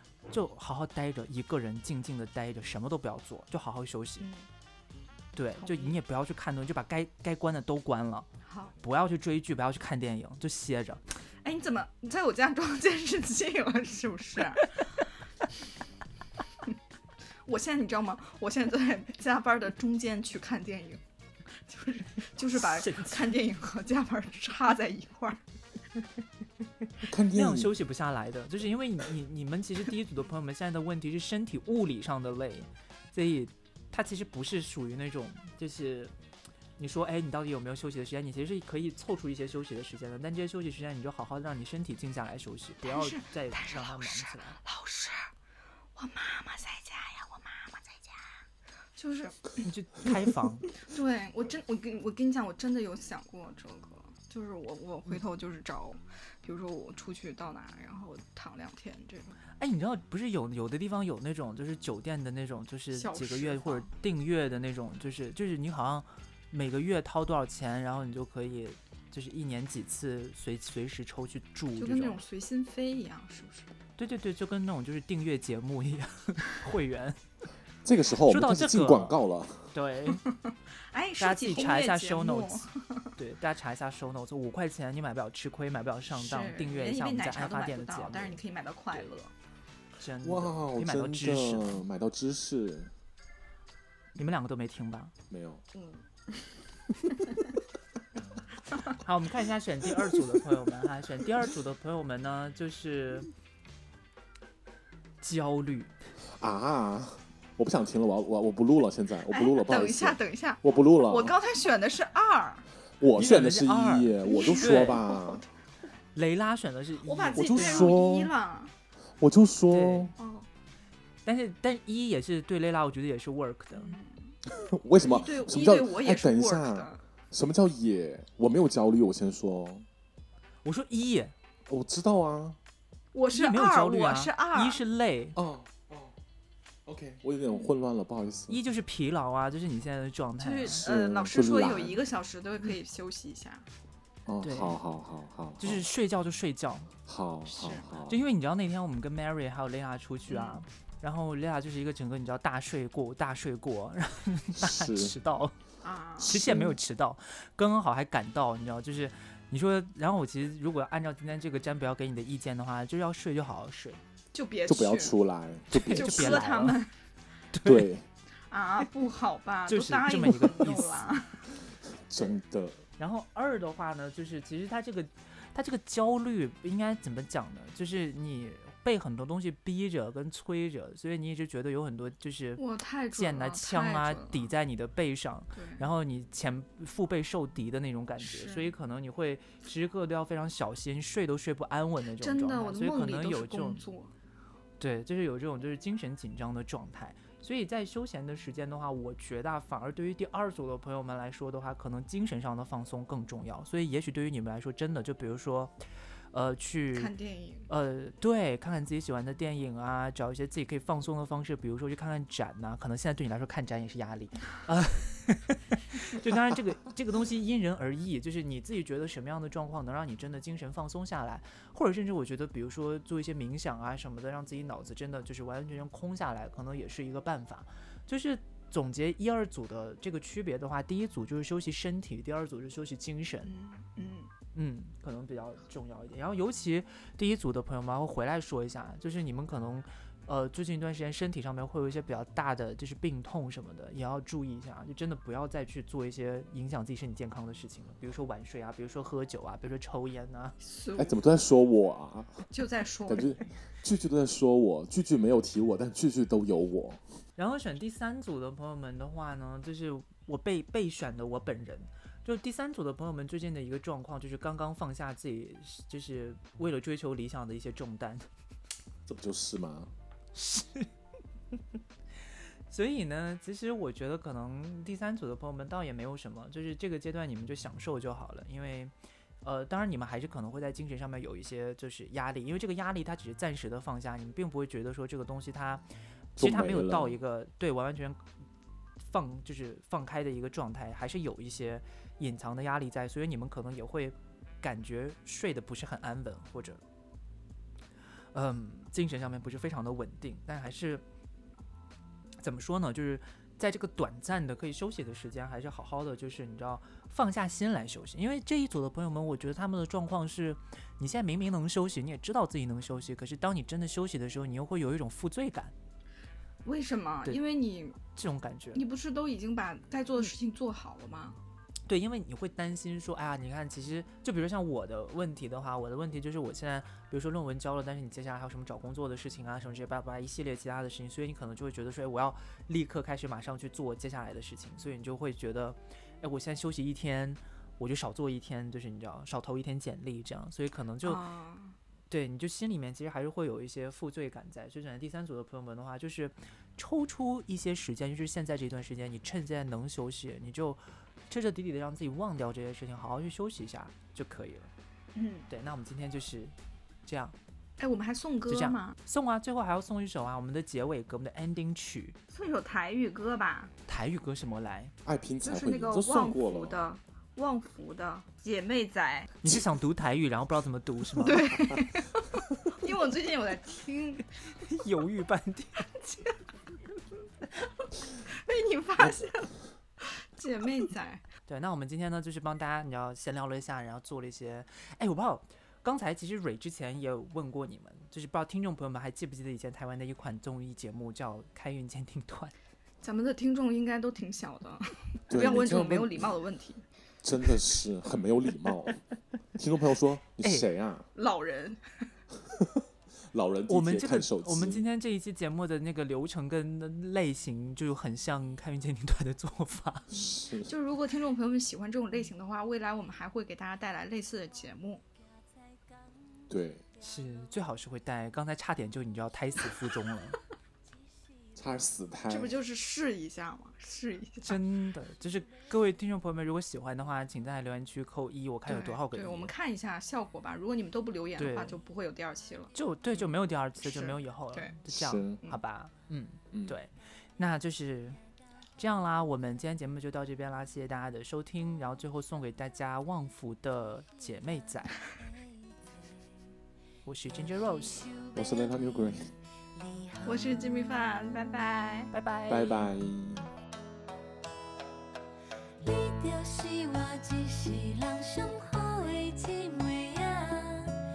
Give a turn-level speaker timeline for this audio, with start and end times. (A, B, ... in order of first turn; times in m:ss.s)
0:00.3-0:04.2 A
0:04.2-0:04.5 B
0:05.3-0:08.3 A
0:05.6-0:06.0 B
0:08.4-0:08.7 B
0:08.8-0:11.0 A
0:11.4-0:15.1 B
0:17.4-0:21.0 B
0:21.6-0:25.4 B
0:22.6-0:23.3 A
0:27.0-0:27.7 C
0:27.3-0:36.1 A
0:36.8-0:44.6 A
0:42.8-0:45.3 B
0:46.0-0:48.2 B
0:49.0-0:49.6 B
0:49.6-0:50.7 A
0:50.8-0:59.4 B
0:59.6-1:12.2 A
1:02.9-1:03.9 B
1:11.8-1:13.7 B
1:14.0-1:17.2 A
1:17.8-1:19.8 C
1:18.3-1:19.2 A
1:19.7-1:20.2 A
1:20.2-1:23.1 B
1:21.2-1:28.4 A
1:26.1-1:29.3 B
1:30.0-1:31.8 A
1:30.2-1:32.9 C
1:34.2-1:35.1 A
1:35.3-1:35.6 C
1:35.7-1:37.5 B
1:38.9-1:43.3 A
1:45.2-1:45.9 A
1:46.2-1:51.3 C
1:49.3-1:52.7 B
1:53.0-1:55.4 C
1:53.1-1:55.0 A
1:54.2-1:55.4 B
1:56.1-1:58.0 A
1:57.0-1:58.7 B
1:57.3-1:58.3 C
1:59.2-2:00.1 C
1:59.7-2:00.1 A
2:00.2-2:00.5 B
2:01.2-2:04.0 A
2:03.7-2:04.4 B
2:04.5-2:09.8 C
2:05.0-2:07.0 B
2:10.6-2:11.3 A
2:11.7-2:12.6 C
2:13.1-2:14.8 B
2:13.3-2:15.4 A
2:15.4-2:16.1 C
2:16.8-2:18.6 C
2:18.5-2:20.8 A
2:20.4-2:23.6 B
2:20.7-2:22.0 C
2:24.2-2:25.9 C
2:24.4-2:24.8 A
2:25.6-2:26.9 A
2:27.0-2:28.2 C
2:27.5-2:27.8 B
2:28.1-2:35.5 A
2:30.3-2:30.6 B
2:34.5-2:35.1 C
2:35.8-2:36.3 B
2:36.2-2:36.8 C
2:36.3-2:44.0 A
2:44.3-2:45.2 B
2:44.7-2:46.4 C
2:45.7-2:46.8 A
2:45.9-2:46.9 B
2:47.5-2:47.9 A
2:47.6-2:48.0 C
2:48.5-2:51.5 B
2:49.7-2:51.1 A
2:51.9-2:52.8 C
2:53.0-3:02.6 A
3:02.6-3:04.5 B
3:03.1-3:13.8 A
3:05.5-3:05.9 B
3:08.2-3:08.7 B
3:12.2-3:14.1 B
3:14.8-3:25.7 A
3:26.3-3:27.1 A
3:26.9-3:27.7 B
3:27.7-3:53.5 A
3:53.4-3:54.3 B
3:54.5-4:10.6 A
4:10.6-4:11.2 B
4:11.0-4:12.5 C
4:12.5-4:13.5 B
4:13.1-4:17.0 C
4:17.4-4:28.3 A
4:29.1-4:29.9 C
4:30.3-4:30.9 A
4:32.7-4:45.8 A
4:46.4-4:47.2 C
4:46.4-4:48.2 A
4:49.0-4:56.8 A
4:58.3-5:01.0 A
5:02.4-5:15.7 A
5:16.6-5:18.0 B
5:18.1-5:18.8 A
5:18.7-5:21.4 B
5:21.9-5:41.2 A
5:41.0-5:41.8 B
5:42.1-5:54.7 A
5:55.1-5:55.4 B
5:55.5-5:57.4 A
5:57.8-5:59.0 B
5:58.5-6:02.2 A
6:02.3-6:03.7 B
6:03.9-6:04.9 A
6:05.0-6:06.9 C
6:05.4-6:09.4 B
6:09.4-6:11.8 A
6:11.2-6:14.2 B
6:14.5-6:15.9 A
6:15.9-6:16.4 B
6:18.1-6:21.2 B
6:21.4-6:32.5 A
6:33.0-6:36.8 B
6:35.3-6:36.3 C
6:37.2-6:39.0 C
6:39.6-6:41.1 C
6:40.4-6:40.7 A
6:41.2-6:42.1 B
6:42.5-6:44.8 C
6:43.7-6:50.1 A
6:50.1-6:50.7 C
6:50.1-6:55.0 B
6:56.5-6:56.8 C
6:57.0-7:00.4 A
7:01.5-7:02.6 C
7:02.3-7:04.6 B
7:04.4-7:09.5 A
7:08.7-7:13.3 B
7:11.4-7:11.8 A
7:12.7-7:18.2 A
7:13.8-7:14.8 B
7:14.9-7:15.4 C
7:18.8-7:25.0 A
7:27.0-7:28.1 A
7:28.2-7:28.7 D
7:28.3-7:29.3 C
7:29.8-7:30.6 D
7:30.2-7:32.1 B
7:32.1-7:32.9 A
7:32.5-7:33.5 C
7:35.8-7:41.0 D